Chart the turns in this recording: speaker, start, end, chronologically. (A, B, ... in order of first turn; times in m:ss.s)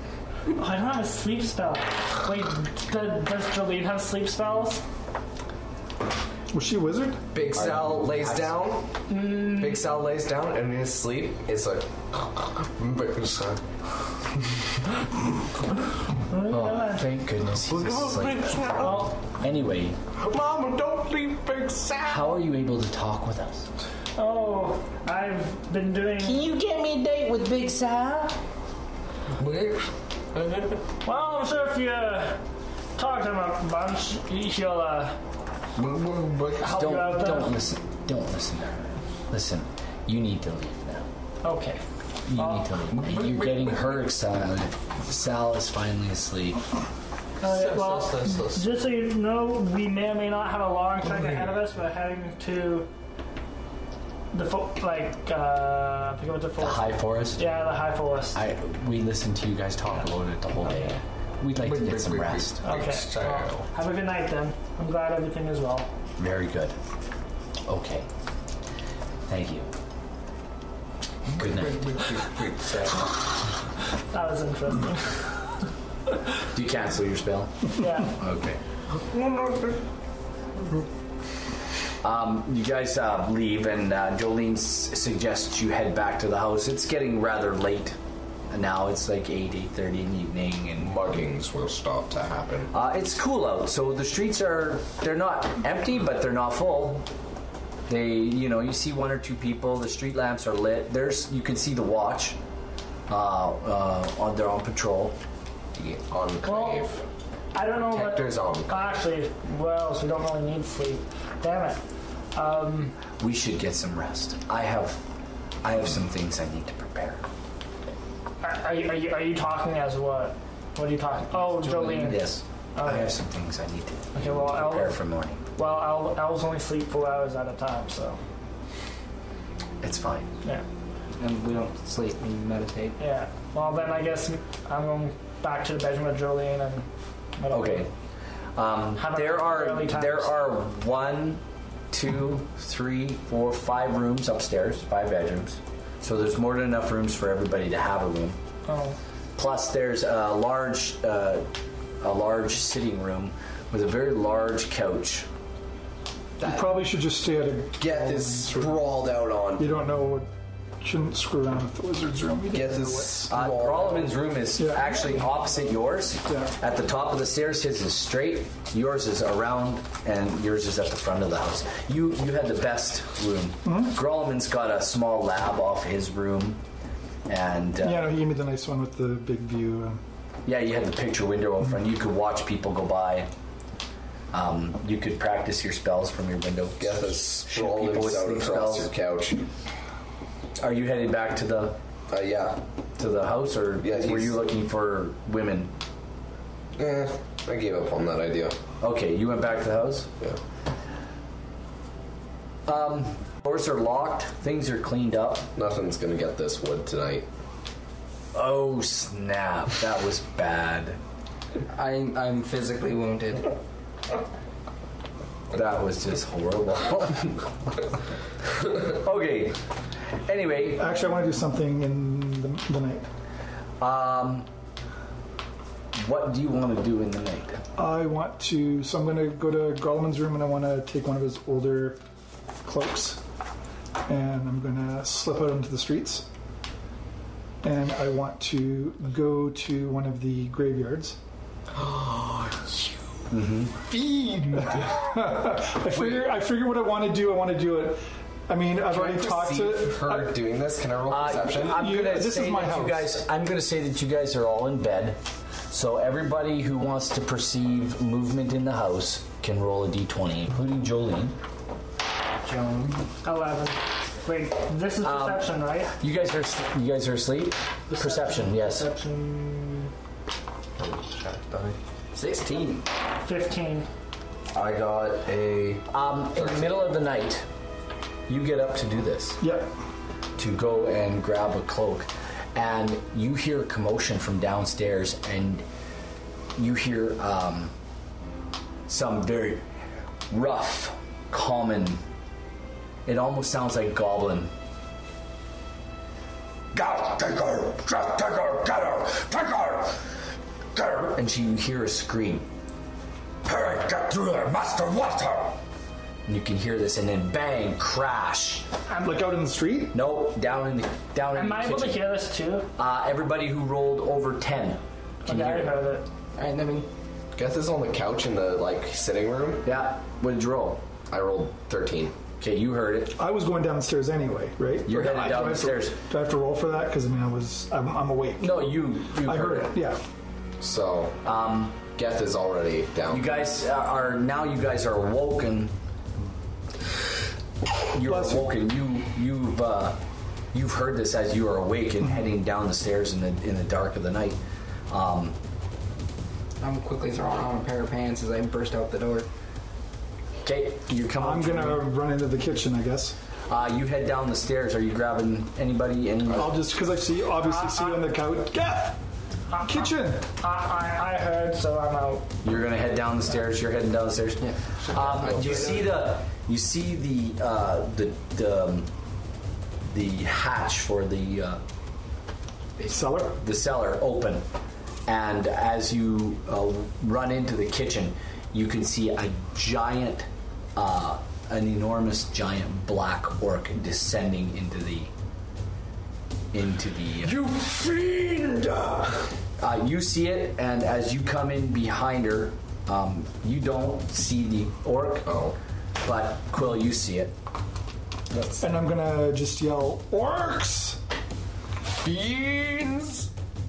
0:00.5-0:04.8 A
0:06.5-0:07.2 B
0:07.3-0:13.6 C
0:07.5-0:08.6 D
0:09.1-0:09.8 A
0:16.3-0:17.1 A
0:16.5-0:20.0 D
0:17.7-0:19.1 C
0:18.8-0:19.1 A
0:20.2-0:22.4 C
0:22.1-0:23.7 D
0:24.2-0:26.4 A
0:26.2-0:28.4 D
0:29.4-0:30.8 C
0:31.0-0:32.4 A
0:33.0-0:35.2 A
0:35.8-0:36.7 C
0:36.6-0:37.6 A
0:36.7-0:41.1 D
0:41.4-0:41.8 A
0:42.3-0:46.6 D
0:42.3-0:42.7 A
0:42.9-0:43.9 C
0:47.4-0:52.9 A
0:47.4-0:48.6 C
0:54.3-0:58.4 A
0:56.6-0:57.4 D
0:58.4-1:02.6 D
1:01.6-1:03.7 C
1:02.6-1:05.9 A
1:06.2-1:06.8 D
1:07.7-1:08.1 D
1:09.3-1:09.7 D
1:11.4-1:12.0 D
1:11.4-1:13.1 C
1:14.1-1:15.2 A
1:16.5-1:18.6 D
1:17.8-1:18.1 A
1:19.1-1:19.6 C
1:22.0-1:28.0 D
1:28.5-1:30.9 D
1:30.8-1:32.7 C
1:32.7-1:37.1 D
1:37.9-1:42.4 D
1:43.1-1:45.2 D
1:45.8-1:47.0 C
1:46.4-1:46.9 A
1:47.5-1:51.8 A
1:47.8-1:48.9 C
1:52.3-1:53.0 A
1:53.2-1:55.0 D
1:55.6-1:57.2 D
1:58.4-2:03.2 A
2:01.3-2:05.4 D
2:04.2-2:05.0 A
2:05.6-2:08.2 A
2:09.8-2:10.3 D
2:11.2-2:13.0 E
2:13.0-2:16.9 A
2:17.4-2:17.9 A
2:17.5-2:17.9 D
2:18.6-2:28.4 D
2:19.0-2:20.4 A
2:28.7-2:29.0 A
2:29.4-2:31.5 D
2:32.0-2:35.3 D
2:36.4-2:36.7 C
2:36.4-2:38.8 B
2:37.8-2:39.7 C
2:39.6-2:40.3 B
2:40.8-2:43.3 B
2:42.5-2:44.2 C
2:43.3-2:56.6 D
2:44.6-2:45.2 B
2:53.6-2:53.9 B
2:57.3-2:58.1 D
2:57.8-3:00.0 B
3:00.4-3:03.3 D
3:04.3-3:08.9 D
3:06.8-3:09.5 C
3:10.6-3:11.8 D
3:12.1-3:12.6 C
3:13.0-3:15.7 D
3:13.8-3:14.4 C
3:16.8-3:18.6 C
3:18.8-3:20.1 D
3:22.7-3:25.5 D
3:25.6-3:27.3 C
3:28.3-3:31.0 D
3:31.7-3:33.5 E
3:35.5-3:37.4 D
3:38.8-3:39.6 D
3:40.2-3:40.8 D
3:40.8-3:43.1 B
3:43.8-3:44.5 D
3:46.0-3:47.6 D
3:47.8-3:52.0 B
3:52.6-3:53.2 B
3:54.1-3:56.3 B
3:57.6-4:01.2 B
4:01.7-4:03.0 C
4:03.3-4:03.8 D
4:03.9-4:05.2 C
4:04.5-4:10.4 B
4:08.8-4:11.9 C
4:11.1-4:15.2 D
4:11.6-4:13.2 B
4:15.7-4:21.4 D
4:22.4-4:23.0 E
4:23.2-4:25.9 A
4:25.0-4:25.4 D
4:26.0-4:28.9 D
4:27.9-4:29.9 A
4:30.8-4:31.8 C
4:32.2-4:32.8 E
4:33.2-4:33.9 A
4:34.5-4:36.8 C
4:35.9-4:37.5 D
4:38.3-4:39.4 D
4:39.4-4:39.7 B
4:40.4-4:45.6 D
4:46.6-4:47.7 D
4:48.9-4:49.6 D
4:50.3-4:52.0 D
4:53.1-4:54.5 D
4:56.7-5:00.0 D
5:00.7-5:02.4 D
5:03.4-5:05.6 D
5:06.3-5:08.7 D
5:09.0-5:10.0 B
5:09.9-5:12.0 D
5:11.3-5:12.7 A
5:12.8-5:15.7 D
5:15.2-5:16.1 A
5:16.4-5:16.9 E
5:17.4-5:19.6 C
5:19.6-5:20.8 D
5:21.1-5:22.2 C
5:22.4-5:23.1 D
5:23.2-5:30.0 B
5:24.9-5:26.0 D
5:28.4-5:29.8 D
5:30.6-5:31.2 C
5:31.2-5:31.8 D
5:31.9-5:33.3 C
5:33.1-5:35.7 D
5:37.9-5:40.0 D
5:38.0-5:38.5 B
5:40.5-5:44.4 D
5:44.9-5:45.4 D
5:46.6-5:49.3 E
5:50.4-5:51.8 D
5:51.2-5:53.2 B
5:53.5-5:56.5 D
5:56.3-5:59.0 B
5:57.4-5:58.1 A
5:59.5-6:02.3 A
5:59.6-6:00.3 B
6:02.4-6:08.9 D
6:04.4-6:05.9 E
6:09.9-6:11.6 D
6:12.9-6:13.4 B
6:13.4-6:14.4 D
6:15.1-6:25.1 D
6:26.5-6:27.4 D
6:27.2-6:29.3 C
6:29.6-6:35.3 D
6:35.2-6:35.6 C
6:36.0-6:37.3 D
6:38.3-6:38.6 C
6:38.6-6:41.0 B
6:42.0-6:43.3 C